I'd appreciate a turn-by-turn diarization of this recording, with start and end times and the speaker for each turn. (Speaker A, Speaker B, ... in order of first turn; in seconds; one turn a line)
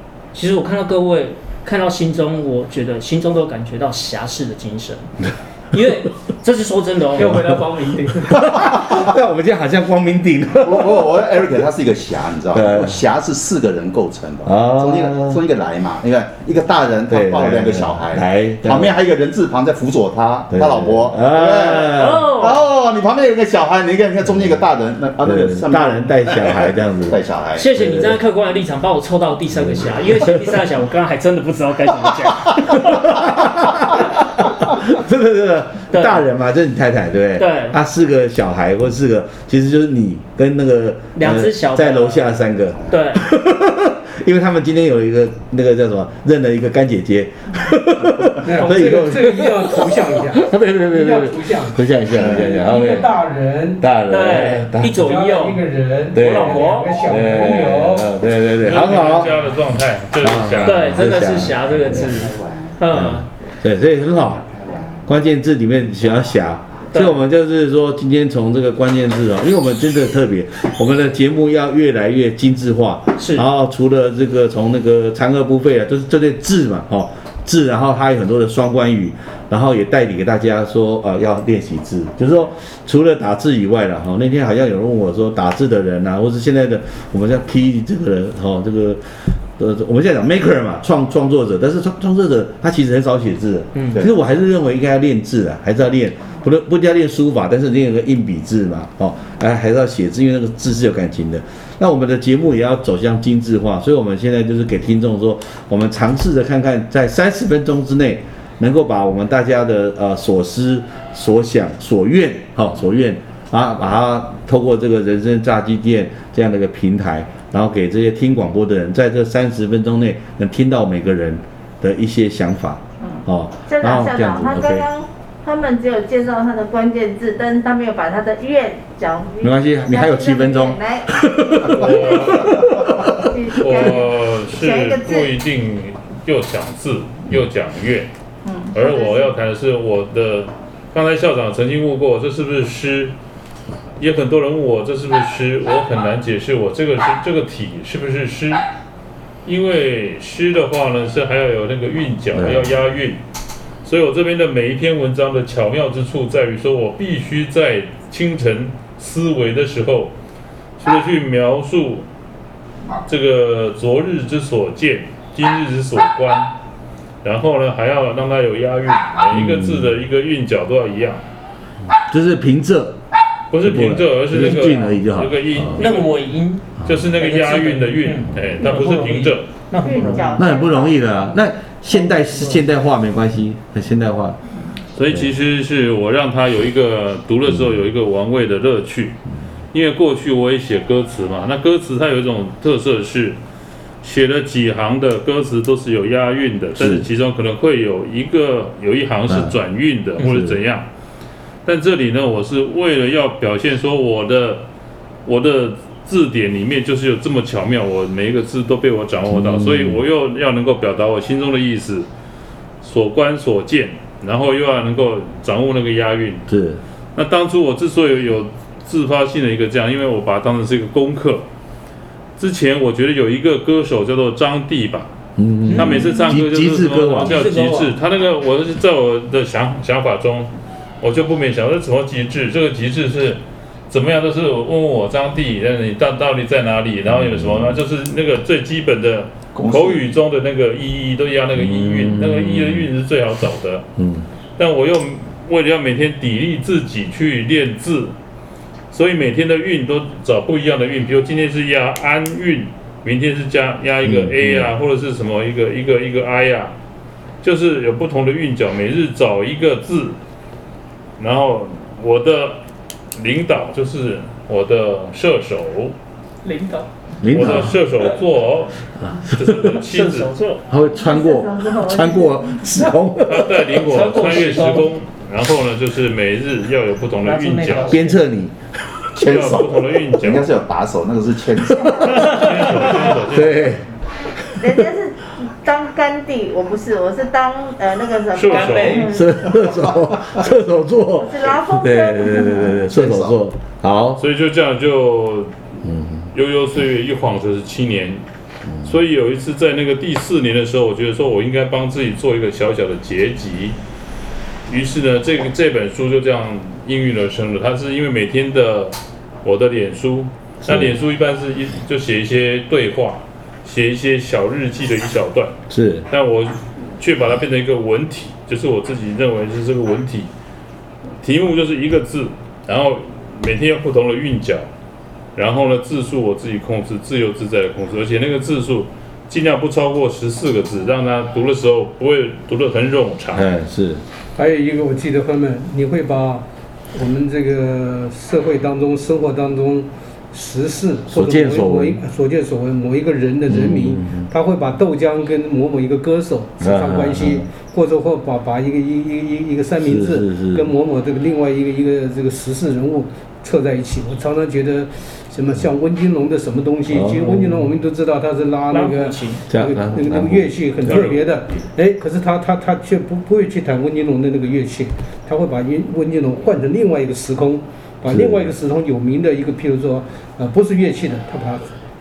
Speaker A: 0.3-5.1
Speaker A: 5.7-7.5
Speaker B: 7.1-8.7
Speaker C: 8.3-11.1
Speaker D: 10.6-27.6
Speaker C: 12.5-13.0
Speaker C: 14.4-15.4
Speaker C: 17.1-18.9
Speaker C: 20.5-22.3
Speaker A: 21.8-22.6
Speaker C: 25.2-27.2
Speaker A: 27.6-33.1
Speaker C: 27.7-28.2
Speaker C: 32.9-53.2
Speaker A: 35.9-36.2
Speaker A: 37.4-37.8
Speaker A: 41.1-42.3
Speaker A: 42.9-43.2
Speaker E: 48.4-53.8
Speaker C: 53.8-55.0
Speaker A: 54.1-57.0
Speaker E: 54.9-58.1
Speaker C: 56.1-59.4
Speaker F: 58.6-61.0
Speaker C: 60.2-62.2
Speaker A: 60.6-63.3
Speaker C: 62.9-64.5
Speaker C: 65.0-124.9
Speaker A: 66.9-67.2
Speaker A: 73.2-73.5
Speaker A: 93.7-94.0
Speaker G: 123.0-132.3
Speaker C: 129.4-133.8
Speaker F: 131.7-132.7
Speaker G: 133.1-135.3
Speaker F: 133.6-138.1
Speaker G: 138.4-139.3
Speaker F: 138.7-143.1
Speaker F: 144.0-148.6
Speaker F: 149.4-153.2
Speaker C: 152.3-152.8
Speaker F: 153.8-160.1
Speaker F: 160.8-162.1
Speaker F: 163.1-166.5
Speaker F: 167.2-171.2
Speaker C: 169.3-169.9
Speaker C: 171.9-173.0
Speaker F: 173.5-176.2
Speaker C: 173.6-175.8
Speaker A: 175.8-180.4
Speaker F: 176.8-179.5
Speaker G: 179.8-181.0
Speaker C: 180.3-184.4
Speaker F: 184.9-189.2
Speaker C: 187.5-187.8
Speaker F: 189.7-193.4
Speaker F: 194.0-200.9
Speaker C: 196.8-197.1
Speaker C: 199.3-199.6
Speaker C: 200.2-200.6
Speaker F: 201.6-204.6
Speaker F: 205.2-212.1
Speaker C: 209.3-210.0
Speaker F: 212.8-216.5
Speaker C: 216.5-216.8
Speaker F: 217.1-221.4
Speaker F: 222.4-225.1
Speaker C: 225.4-227.5
Speaker A: 225.7-226.3
Speaker F: 225.8-243.9
Speaker A: 227.1-227.9
Speaker C: 237.1-237.8
Speaker D: 239.6-240.0
Speaker C: 241.6-242.9
Speaker C: 244.0-244.2
Speaker F: 244.6-248.1
Speaker F: 248.9-256.7
Speaker C: 254.0-254.7
Speaker F: 257.4-260.2
Speaker F: 261.2-262.6
Speaker F: 263.1-265.9
Speaker B: 266.4-266.9
Speaker C: 267.2-267.9
Speaker F: 267.2-270.3
Speaker C: 269.1-269.8
Speaker A: 269.9-270.6
Speaker C: 270.7-273.8
Speaker G: 270.8-272.9
Speaker F: 273.2-277.9
Speaker A: 273.8-274.9
Speaker A: 277.2-278.2
Speaker C: 277.9-278.5
Speaker D: 279.1-282.3
Speaker F: 279.1-280.5
Speaker C: 281.7-283.9
Speaker G: 281.8-282.1
Speaker F: 282.1-283.7
Speaker C: 284.6-284.8
Speaker G: 284.6-289.3
Speaker F: 288.3-289.1
Speaker A: 288.4-289.3
Speaker C: 289.1-294.2
Speaker G: 291.2-292.9
Speaker D: 292.9-293.4
Speaker F: 294.2-295.5
Speaker C: 295.8-296.3
Speaker F: 296.3-298.2
Speaker F: 298.8-303.8
Speaker F: 304.7-315.5
Speaker C: 310.6-310.9
Speaker C: 315.7-316.1
Speaker F: 316.1-320.3
Speaker F: 321.2-324.7
Speaker F: 325.4-333.5
Speaker C: 333.3-334.0
Speaker E: 334.4-371.7
Speaker C: 341.1-342.0
Speaker C: 343.5-344.3
Speaker C: 346.6-347.5
Speaker C: 349.8-350.7
Speaker C: 356.9-357.7
Speaker A: 358.7-359.4
Speaker C: 359.5-361.1
Speaker C: 368.1-368.5